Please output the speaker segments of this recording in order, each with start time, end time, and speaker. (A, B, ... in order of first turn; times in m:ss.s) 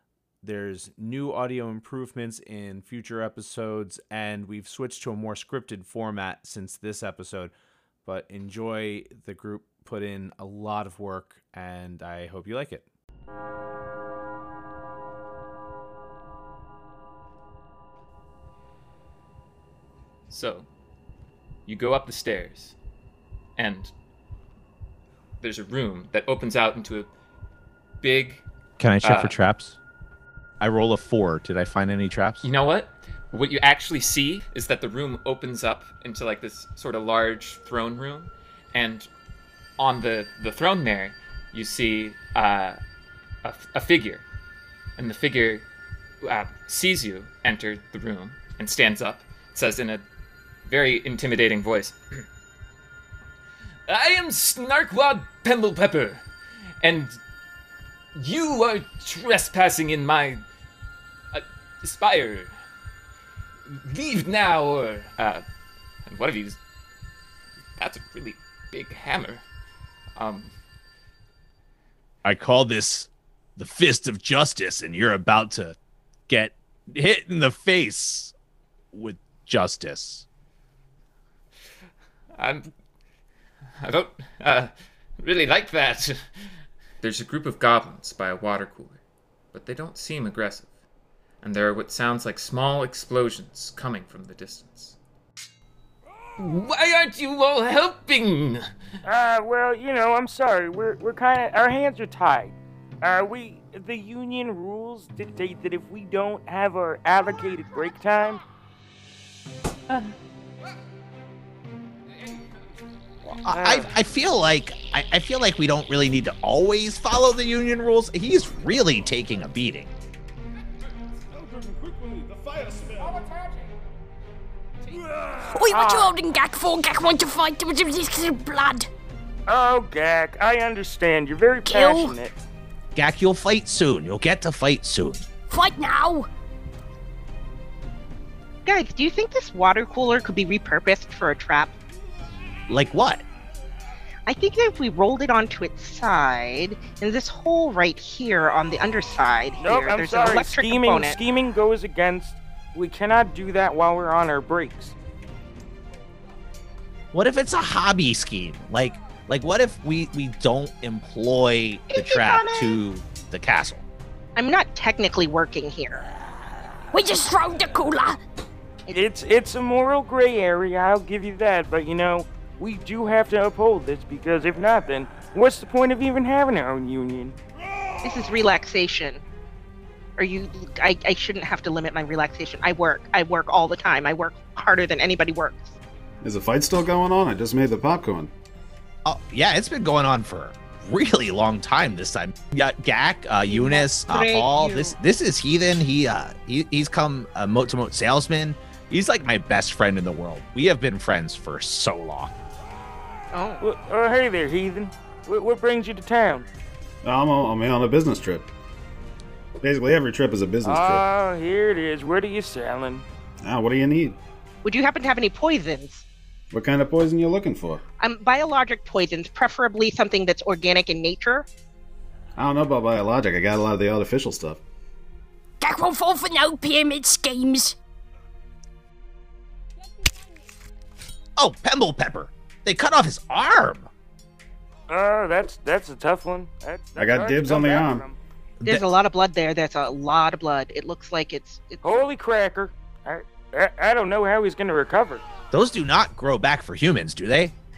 0:00.4-0:07.5 A
0:08.0-0:12.9 A
0:20.3-0:20.6 B
0:21.6-0:22.7 B
0:23.6-0:23.9 B
0:25.4-0:27.1 B
0:28.0-0:28.4 B
0:28.8-0:29.8 C
0:29.0-0:29.3 B
0:30.6-0:32.4 C
0:32.4-0:39.1 B
0:39.8-0:42.8 B
0:43.4-0:44.2 B
0:45.0-0:45.6 B
0:46.2-0:50.0 B
0:50.6-0:52.0 B
0:53.9-0:56.2 B
0:56.8-0:57.2 B
0:58.1-1:00.4 B
1:01.3-1:02.5 B
1:03.7-1:05.4 B
1:06.1-1:06.6 B
1:07.8-1:09.4 B
1:10.2-1:10.5 B
1:12.2-1:15.8 C
1:16.3-1:18.3 C
1:18.9-1:20.2 C
1:22.4-1:22.7 B
1:23.8-1:26.2 B
1:27.0-1:29.0 B
1:29.5-1:30.7 B
1:31.4-1:35.0 B
1:36.4-1:38.7 B
1:39.0-1:48.4 D
1:53.2-1:53.9 D
1:53.4-1:59.9 C
2:01.3-2:03.2 E
2:05.0-2:06.1 D
2:05.4-2:08.9 F
2:09.5-2:12.4 D
2:11.6-2:12.1 F
2:12.9-2:15.2 C
2:15.5-2:16.3 F
2:18.6-2:21.7 G
2:22.7-2:23.2 C
2:24.3-2:31.2 G
2:29.6-2:35.0 D
2:37.1-2:43.8 C
2:41.9-2:42.8 G
2:44.4-2:46.1 G
2:46.9-2:48.2 F
2:48.9-2:57.4 D
2:58.0-2:59.2 G
3:00.2-3:05.8 G
3:06.2-3:08.3 E
3:09.0-3:22.3 C
3:13.4-3:14.9 G
3:23.3-3:23.6 G
3:23.6-3:26.5 D
3:27.0-3:28.5 E
3:29.6-3:31.0 E
3:30.6-3:33.0 D
3:33.4-3:34.2 E
3:34.6-3:36.0 G
3:36.5-3:37.8 E
3:38.0-3:41.5 G
3:42.4-3:44.6 E
3:45.6-3:47.8 F
3:51.4-3:53.9 C
3:54.9-3:58.2 D
3:57.0-3:58.0 E
3:58.6-3:58.9 C
3:58.6-4:02.1 G
4:01.8-4:05.2 D
4:05.5-4:07.5 C